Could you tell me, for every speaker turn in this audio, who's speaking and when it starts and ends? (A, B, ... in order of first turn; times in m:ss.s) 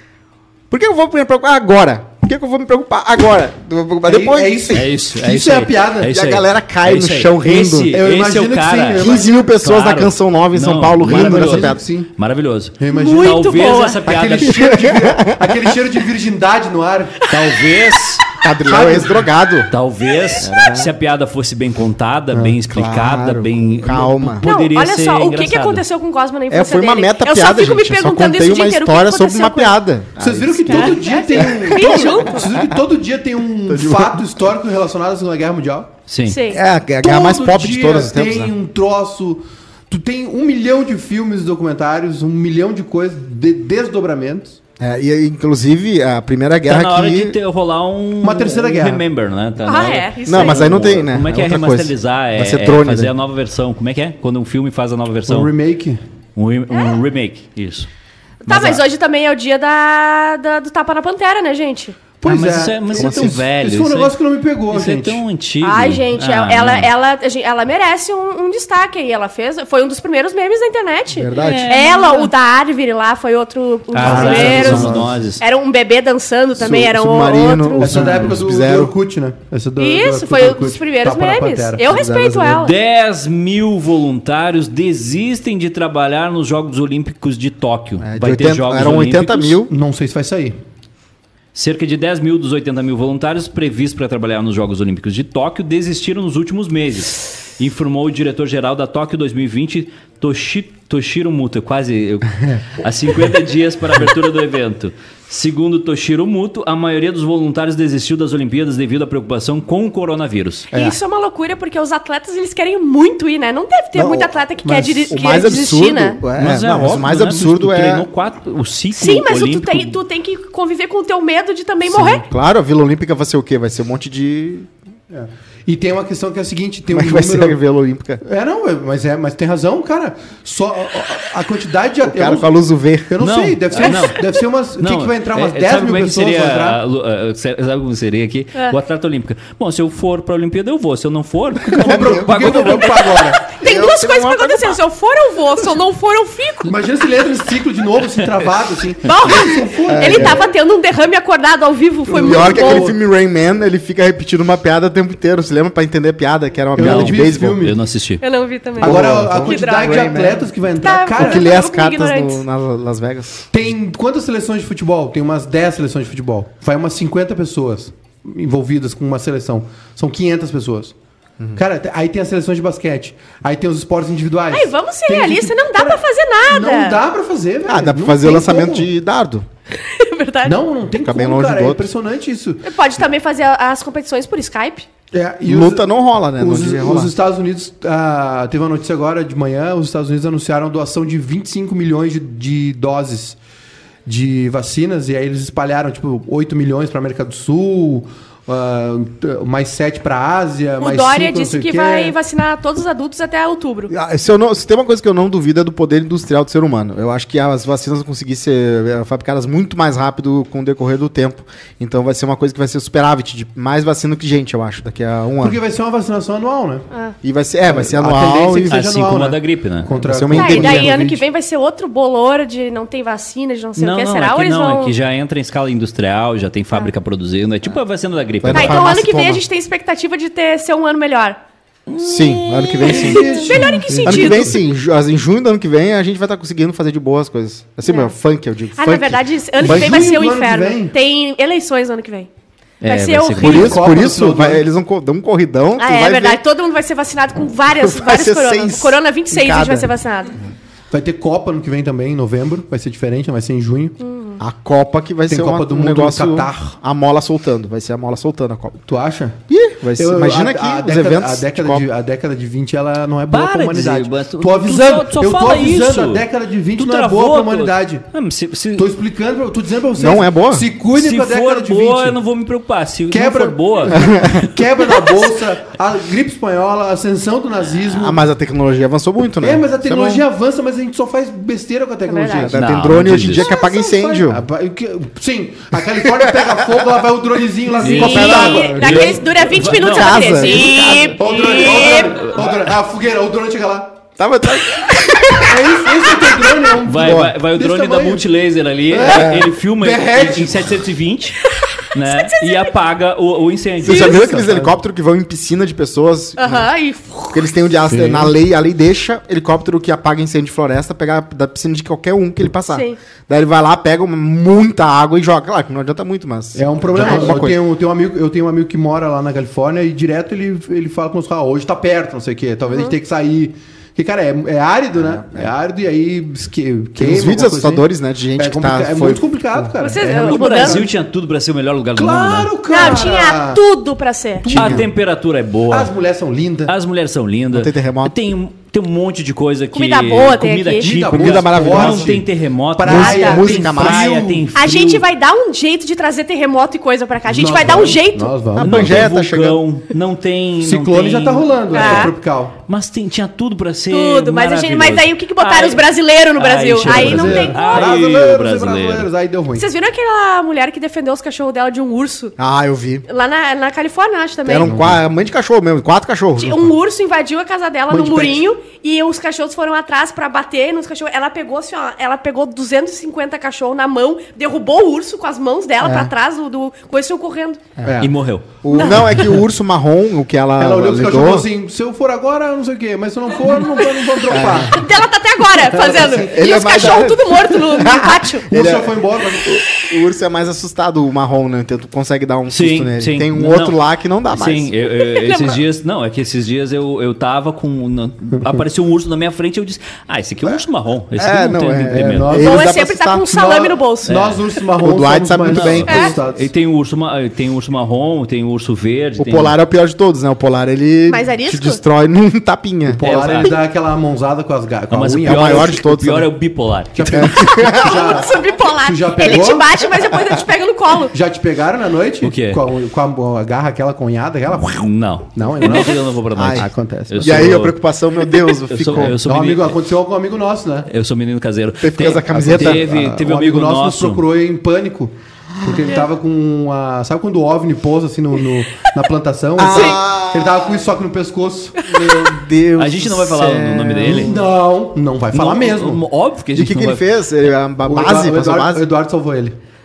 0:00.7-0:04.9 A
0:04.1-0:06.1 B
0:04.7-0:14.8 C
0:06.1-0:07.9 A
0:07.9-0:09.3 B
0:09.0-0:11.8 A
0:11.0-0:12.1 B
0:12.8-0:17.4 B
0:12.9-0:14.0 D
0:14.6-0:15.6 A
0:17.3-0:18.2 C
0:18.4-0:19.7 A
0:18.6-0:19.2 B
0:19.7-0:25.8 C
0:20.4-0:20.9 A
0:22.3-0:22.6 B
0:22.7-0:24.4 A
0:24.4-0:29.8 D
0:26.5-0:32.8 A
0:30.2-0:35.9 B
0:30.7-0:32.5 D
0:33.6-0:34.2 A
0:36.1-0:36.4 C
0:36.2-0:36.6 D
0:36.5-0:38.5 A
0:37.0-0:44.6 B
0:44.8-0:47.4 A
0:46.6-0:55.5 C
0:48.2-0:49.0 B
0:49.6-0:50.8 D
0:50.3-0:53.1 A
0:55.3-0:56.0 B
0:56.4-0:57.9 C
0:58.4-1:02.0 D
0:58.5-0:58.8 A
1:02.2-1:05.2 B
1:02.2-1:04.1 C
1:02.9-1:03.4 A
1:04.7-1:06.9 C
1:05.6-1:18.2 D
1:11.1-1:11.8 A
1:11.3-1:12.3 C
1:13.9-1:15.4 C
1:14.0-1:15.2 B
1:14.3-1:15.0 A
1:16.6-1:18.9 A
1:17.8-1:22.0 B
1:19.8-1:22.7 D
1:21.8-1:22.6 A
1:22.6-1:29.6 C
1:28.0-1:29.7 A
1:29.7-1:30.6 B
1:31.5-1:50.7 C
1:50.7-1:51.0 B
1:50.7-1:56.2 D
1:53.9-1:54.3 A
1:54.6-1:55.2 B
1:55.1-1:58.1 A
1:56.3-2:00.0 C
1:58.9-2:02.2 D
2:01.8-2:04.7 A
2:05.1-2:07.6 B
2:06.9-2:08.2 A
2:08.2-2:12.5 B
2:12.0-2:13.1 A
2:13.1-2:16.8 B
2:13.2-2:23.1 C
2:13.8-2:14.2 D
2:21.7-2:24.8 A
2:21.7-2:23.4 B
2:23.4-2:26.8 D
2:26.6-2:30.4 B
2:29.0-2:32.9 D
2:29.9-2:30.4 A
2:32.1-2:33.0 B
2:32.1-2:37.7 A
2:36.7-2:37.8 B
2:36.8-2:38.2 C
2:38.2-2:40.2 D
2:38.8-2:41.4 B
2:38.8-2:40.4 A
2:40.8-2:42.4 D
2:41.2-2:43.4 A
2:43.5-2:50.9 B
2:51.6-2:58.9 B
2:54.5-2:57.0 D
2:57.7-2:59.4 A
2:59.8-3:00.6 D
3:00.4-3:02.7 B
3:00.9-3:01.9 A
3:02.6-3:04.9 D
3:05.1-3:05.8 B
3:05.4-3:07.1 A
3:06.4-3:13.4 B
3:14.0-3:22.2 B
3:20.8-3:23.9 D
3:23.9-3:35.6 A
3:35.4-3:36.8 B
3:37.2-3:38.8 A
3:37.7-3:41.2 B
3:38.7-3:39.9 C
3:40.0-3:41.0 A
3:40.3-3:45.0 D
3:43.8-3:48.8 C
3:48.4-3:49.4 A
3:48.5-3:51.4 D
3:51.9-3:53.9 C
3:52.0-4:00.2 A
3:52.8-3:54.6 D
3:53.0-3:54.2 B
3:57.8-3:58.1 D
3:58.8-4:02.3 D
3:59.6-4:00.9 B
4:02.8-4:03.8 C
4:02.8-4:03.8 D
4:03.4-4:06.4 A
4:03.4-4:04.6 B
4:05.8-4:10.3 D
4:07.7-4:09.9 A
4:10.9-4:14.0 B
4:14.0-4:14.4 D
4:14.4-4:18.8 A
4:15.3-4:16.8 B
4:18.9-4:19.4 B
4:19.5-4:21.8 A
4:20.0-4:28.0 B
4:23.3-4:28.9 C
4:28.8-4:32.2 B
4:30.0-4:30.6 A
4:30.9-4:35.2 C
4:33.1-4:38.2 B
4:33.9-4:34.4 A
4:37.8-4:40.2 A
4:39.4-4:49.3 B
4:42.0-4:42.5 D
4:42.3-4:44.4 A
4:42.5-4:43.5 C
4:45.9-4:46.9 A
4:47.8-4:50.6 C
4:47.8-4:49.0 A
4:48.0-4:52.2 D
4:49.8-4:51.3 A
4:51.1-4:54.0 B
4:51.8-4:52.6 C
4:54.2-4:56.2 A
4:55.4-4:58.2 B
4:56.8-5:01.4 C
4:56.9-4:57.3 A
4:58.9-5:00.8 B
4:59.0-4:59.5 A
5:01.4-5:02.7 D
5:01.9-5:04.2 C
5:03.8-5:06.7 A
5:03.9-5:04.8 B
5:06.4-5:07.5 D
5:07.3-5:17.6 A
5:07.9-5:08.3 B
5:12.7-5:13.0 D
5:16.5-5:27.8 B
5:22.6-5:22.9 D
5:25.0-5:25.5 A
5:27.0-5:29.7 A
5:28.4-5:30.9 B
5:29.8-5:30.9 D
5:30.0-5:33.0 C
5:32.0-5:33.6 B
5:32.7-5:34.5 D
5:34.4-5:34.9 B
5:34.5-5:35.9 C
5:34.5-5:34.9 A
5:35.7-5:36.7 B
5:36.7-5:45.0 C
5:37.5-5:38.1 A
5:39.7-5:40.9 D
5:40.8-5:44.4 B
5:41.1-5:42.2 A
5:42.8-5:44.1 A
5:42.9-5:43.4 D
5:44.5-5:48.3 D
5:47.3-5:49.1 B
5:48.5-5:49.6 A
5:48.6-5:52.1 C
5:50.6-5:52.6 B
5:51.7-5:52.1 D
5:52.7-5:59.1 C
5:53.9-5:58.0 D
5:56.8-5:59.6 B
5:59.5-6:02.3 D
6:02.4-6:03.0 A
6:03.1-6:04.7 D
6:04.4-6:06.7 A
6:04.6-6:05.0 B
6:06.4-6:17.6 D
6:07.9-6:08.5 B
6:15.8-6:16.1 A
6:17.8-6:18.1 B
6:18.0-6:18.4 C
6:18.6-6:21.5 A
6:18.7-6:19.2 D
6:20.6-6:24.9 B
6:24.3-6:24.8 A
6:24.7-6:28.5 D
6:25.6-6:27.0 B
6:26.1-6:34.7 A
6:28.5-6:29.5 B
6:32.5-6:33.8 C
6:34.3-6:42.4 C
6:35.0-6:35.6 D
6:38.3-6:38.6 B
6:41.1-6:43.2 A
6:41.9-6:42.7 B
6:42.4-6:44.2 D
6:43.2-6:46.5 B
6:44.1-6:44.4 C
6:44.8-6:46.0 A
6:45.5-6:49.5 C
6:45.9-6:46.1 D
6:49.2-6:53.0 A
6:51.1-6:51.8 D
6:52.8-6:55.8 B
6:53.0-6:53.6 C
6:54.9-6:57.3 C
6:55.2-6:56.3 A
6:56.9-6:59.8 B
6:57.0-6:58.2 A
6:57.7-7:01.1 D
7:01.1-7:07.6 B
7:02.2-7:02.6 C
7:04.7-7:07.8 C
7:06.3-7:06.7 A
7:07.2-7:09.2 A
7:08.5-7:09.8 C
7:09.0-7:10.9 B
7:10.9-7:14.2 C
7:11.8-7:12.9 A
7:12.3-7:21.9 B
7:19.6-7:20.8 A
7:19.7-7:20.0 D
7:21.8-7:22.4 D
7:21.9-7:24.5 A
7:22.8-7:24.5 C
7:24.0-7:26.0 B
7:25.3-7:27.1 C
7:26.5-7:28.9 A
7:27.8-7:29.6 B